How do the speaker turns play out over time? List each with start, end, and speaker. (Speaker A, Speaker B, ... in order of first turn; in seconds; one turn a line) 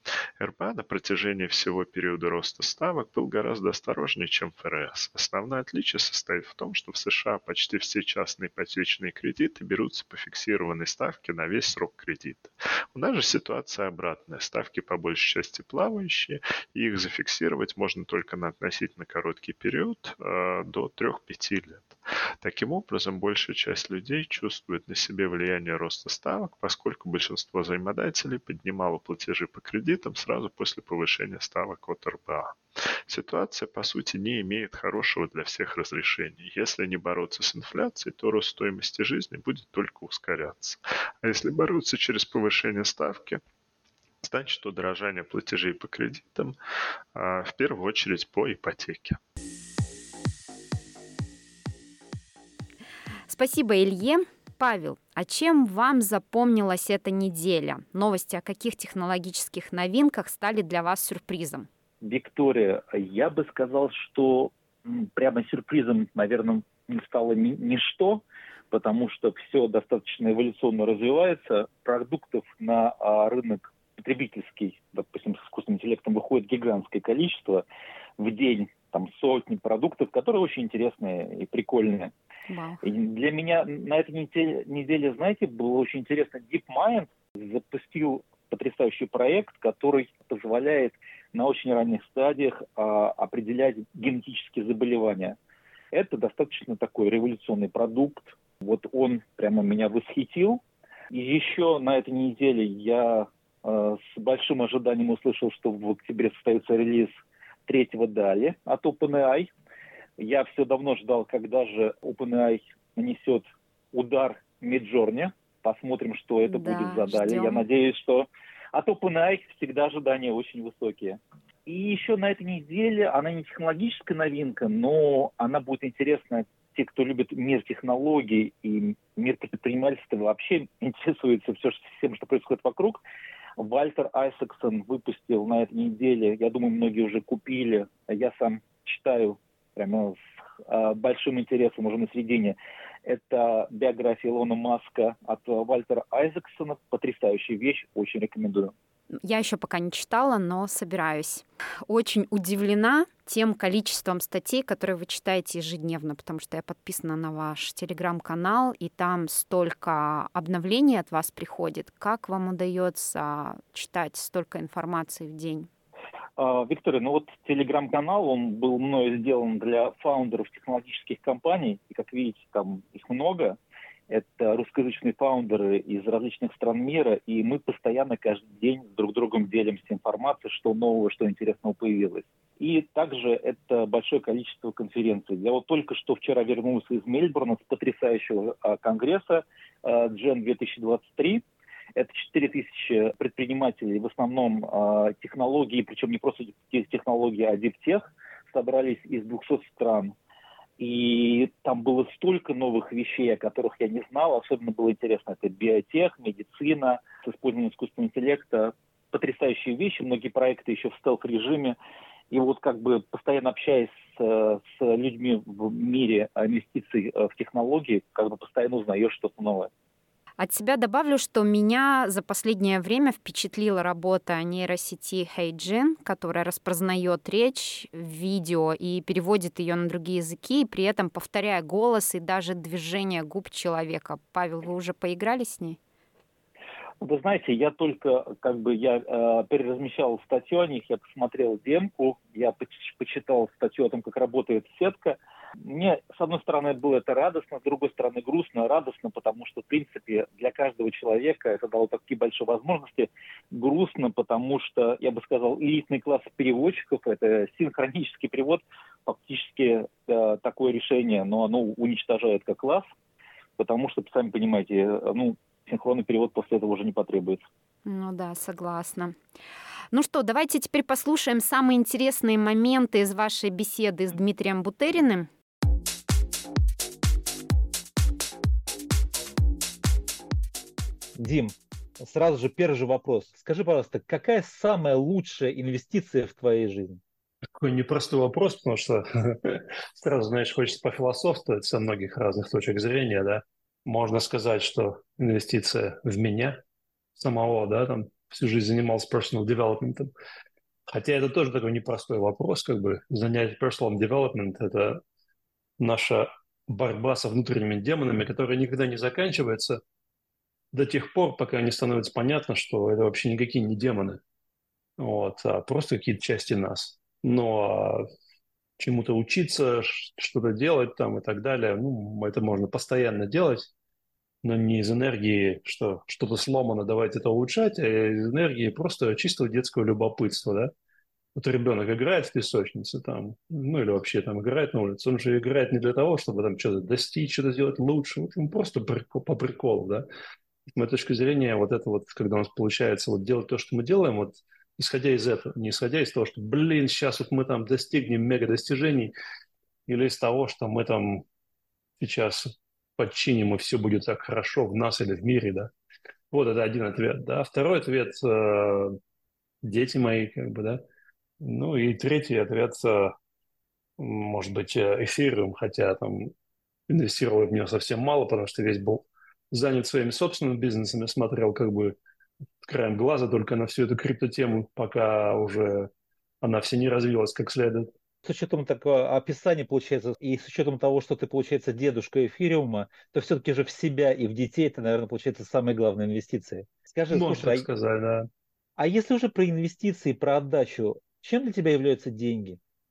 Speaker A: 0.4-32.6
Speaker A: 33.1-43.4
Speaker A: 44.2-46.5
Speaker A: 47.1-49.2
Speaker B: 53.3-61.7
Speaker C: 62.0-77.6
Speaker C: 78.2-82.1
Speaker B: 82.5-82.8
Speaker C: 82.8-95.3
Speaker C: 95.9-100.6
Speaker C: 101.1-107.1
Speaker C: 107.7-109.5
Speaker C: 110.2-133.0
Speaker B: 116.5-117.6
Speaker C: 133.6-148.7
Speaker B: 149.2-165.7
Speaker C: 166.4-173.6
Speaker C: 174.1-191.4
Speaker C: 191.9-200.1
Speaker C: 200.8-211.8
Speaker C: 212.3-219.7
Speaker B: 220.4-235.8
Speaker C: 237.0-262.8
Speaker C: 263.6-267.4
Speaker B: 267.8-269.1
Speaker B: 269.9-275.3
Speaker D: 281.1-287.0
Speaker E: 287.6-296.6
Speaker E: 297.1-300.1
Speaker E: 300.9-305.0
Speaker E: 305.8-309.8
Speaker E: 310.7-314.2
Speaker E: 315.0-318.1
Speaker E: 318.8-323.7
Speaker E: 324.4-330.7
Speaker E: 331.3-340.1
Speaker E: 340.7-349.1
Speaker E: 349.9-351.2
Speaker E: 352.0-355.7
Speaker E: 356.3-358.9
Speaker E: 359.6-360.8
Speaker E: 361.4-363.1
Speaker E: 364.0-366.3
Speaker E: 366.9-371.9
Speaker E: 372.6-375.9
Speaker E: 376.4-377.9
Speaker D: 378.2-387.6
Speaker E: 387.1-388.3
Speaker D: 388.8-392.6